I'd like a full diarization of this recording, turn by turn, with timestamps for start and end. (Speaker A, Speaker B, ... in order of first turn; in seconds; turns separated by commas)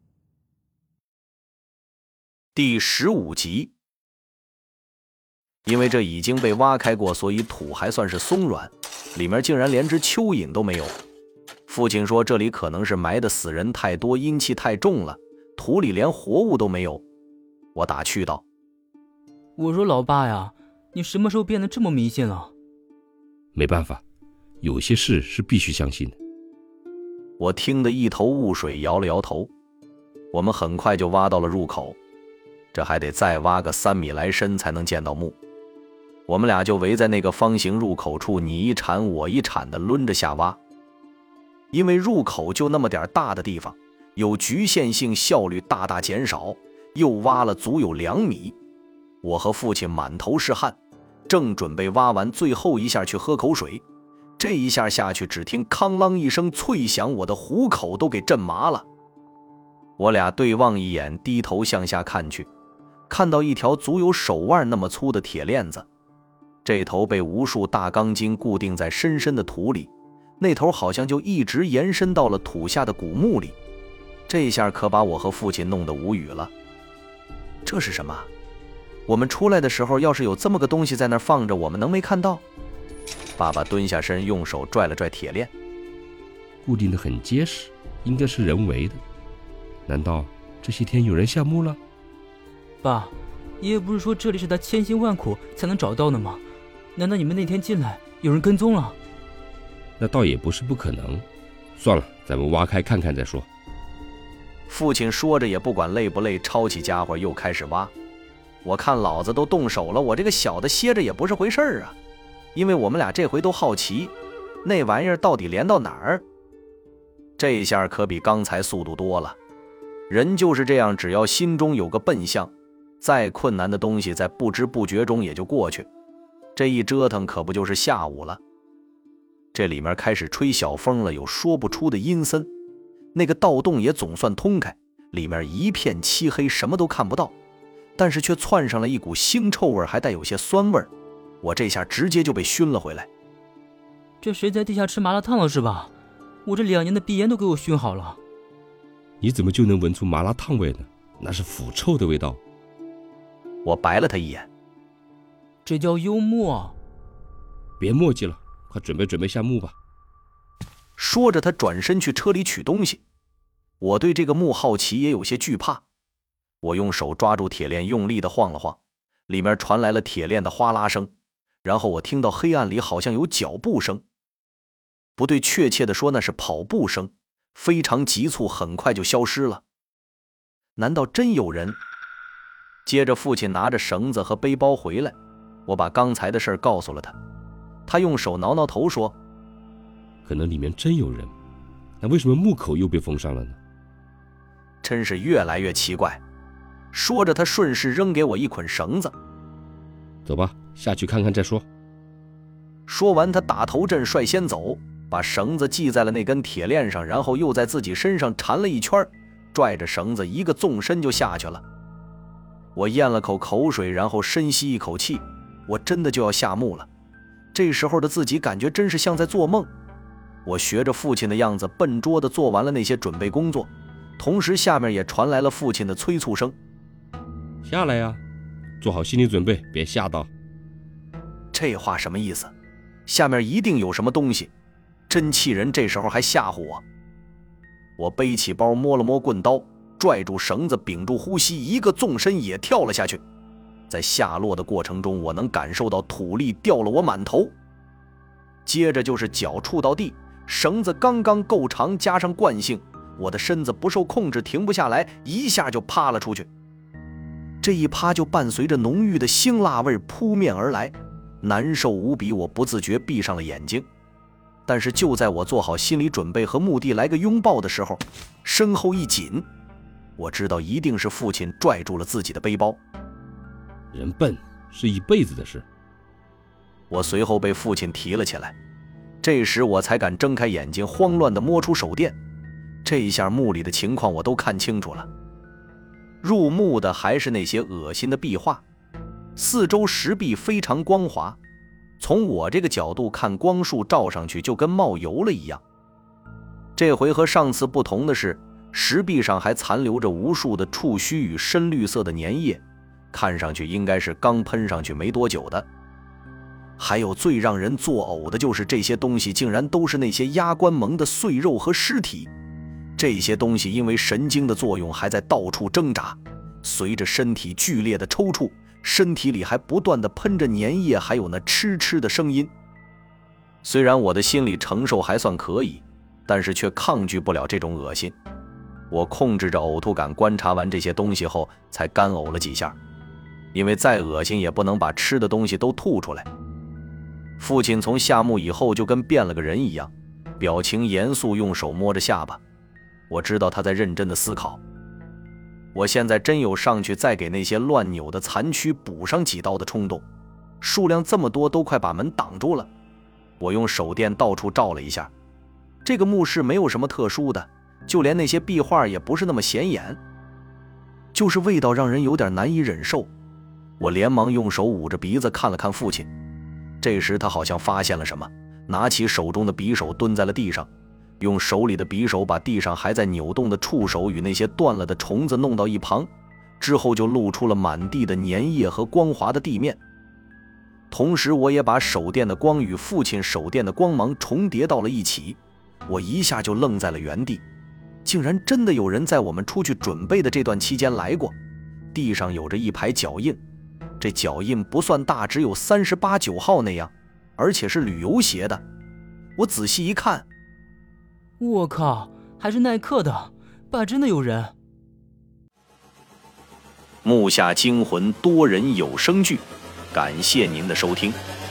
Speaker A: 2.5-3.7, Speaker A: 5.7-11.0, Speaker A: 11.7-17.0, Speaker A: 17.8-18.4, Speaker B: 19.6-22.5, Speaker C: 23.5-24.0, Speaker C: 24.6-26.2, Speaker A: 27.4-29.5, Speaker A: 30.3-32.0, Speaker A: 32.7-35.4, Speaker A: 36.3-40.6, Speaker A: 41.7-48.6, Speaker A: 49.2-53.8, Speaker A: 54.4-58.9, Speaker A: 60.0-62.5, Speaker A: 63.1-65.9, Speaker A: 66.7-73.6, Speaker A: 74.3-76.5, Speaker A: 77.7-78.3, Speaker A: 79.1-82.4, Speaker A: 83.4-85.5, Speaker C: 86.6-89.0, Speaker C: 89.9-91.8, Speaker B: 92.8-96.4, Speaker B: 97.0-99.0, Speaker C: 100.0-101.2, Speaker C: 101.8-103.5, Speaker A: 104.7-107.9, Speaker A: 108.6-112.0, Speaker A: 112.5-116.2, Speaker A: 117.4-119.4, Speaker A: 120.1-125.9, Speaker A: 126.5-128.4, Speaker A: 129.5-132.5, Speaker A: 133.1-137.3, Speaker A: 138.0-140.9, Speaker A: 141.4-143.1, Speaker B: 144.2-145.9, Speaker B: 146.4-148.2, Speaker C: 149.2-152.4, Speaker A: 153.6-154.5, Speaker B: 155.7-156.8, Speaker C: 157.8-159.8, Speaker A: 161.0-163.0, Speaker A: 163.8-165.8, Speaker A: 166.6-171.1, Speaker A: 171.6-174.0, Speaker A: 175.2-179.6, Speaker A: 180.8-181.8, Speaker A: 182.8-185.2, Speaker A: 185.7-187.2, Speaker A: 187.9-189.2, Speaker C: 190.2-191.3, Speaker C: 192.0-193.6, Speaker A: 194.8-196.2, Speaker A: 196.9-199.1, Speaker C: 200.3-201.7, Speaker A: 202.9-211.6, Speaker A: 212.8-216.9, Speaker A: 217.5-219.7, Speaker A: 220.4-226.6, Speaker C: 227.6-228.2, Speaker C: 228.8-230.3, Speaker A: 231.5-232.5, Speaker A: 233.1-234.5, Speaker A: 235.1-236.8, Speaker A: 238.0-243.2, Speaker A: 243.9-247.5, Speaker A: 248.7-256.5, Speaker A: 257.6-263.9, Speaker A: 264.7-269.4, Speaker A: 270.2-272.8, Speaker C: 273.9-275.6, Speaker A: 276.9-278.6, Speaker A: 279.2-282.2, Speaker A: 282.8-285.1, Speaker A: 286.2-288.6, Speaker A: 289.4-291.4, Speaker A: 292.0-295.6, Speaker A: 296.8-305.7, Speaker A: 306.8-312.3, Speaker A: 313.0-322.5, Speaker A: 323.6-328.1, Speaker A: 328.9-332.8, Speaker A: 333.5-336.3, Speaker A: 337.4-342.4, Speaker A: 343.1-344.6, Speaker A: 345.7-350.0, Speaker A: 350.6-352.7, Speaker A: 353.4-355.1, Speaker A: 355.9-360.0, Speaker A: 361.1-363.1, Speaker A: 363.8-366.1, Speaker A: 366.8-376.1, Speaker A: 376.6-379.8, Speaker A: 380.9-387.4, Speaker A: 388.1-391.4, Speaker A: 391.9-393.4, Speaker A: 394.0-398.6, Speaker A: 399.4-400.3, Speaker B: 401.4-404.5, Speaker A: 407.0-411.2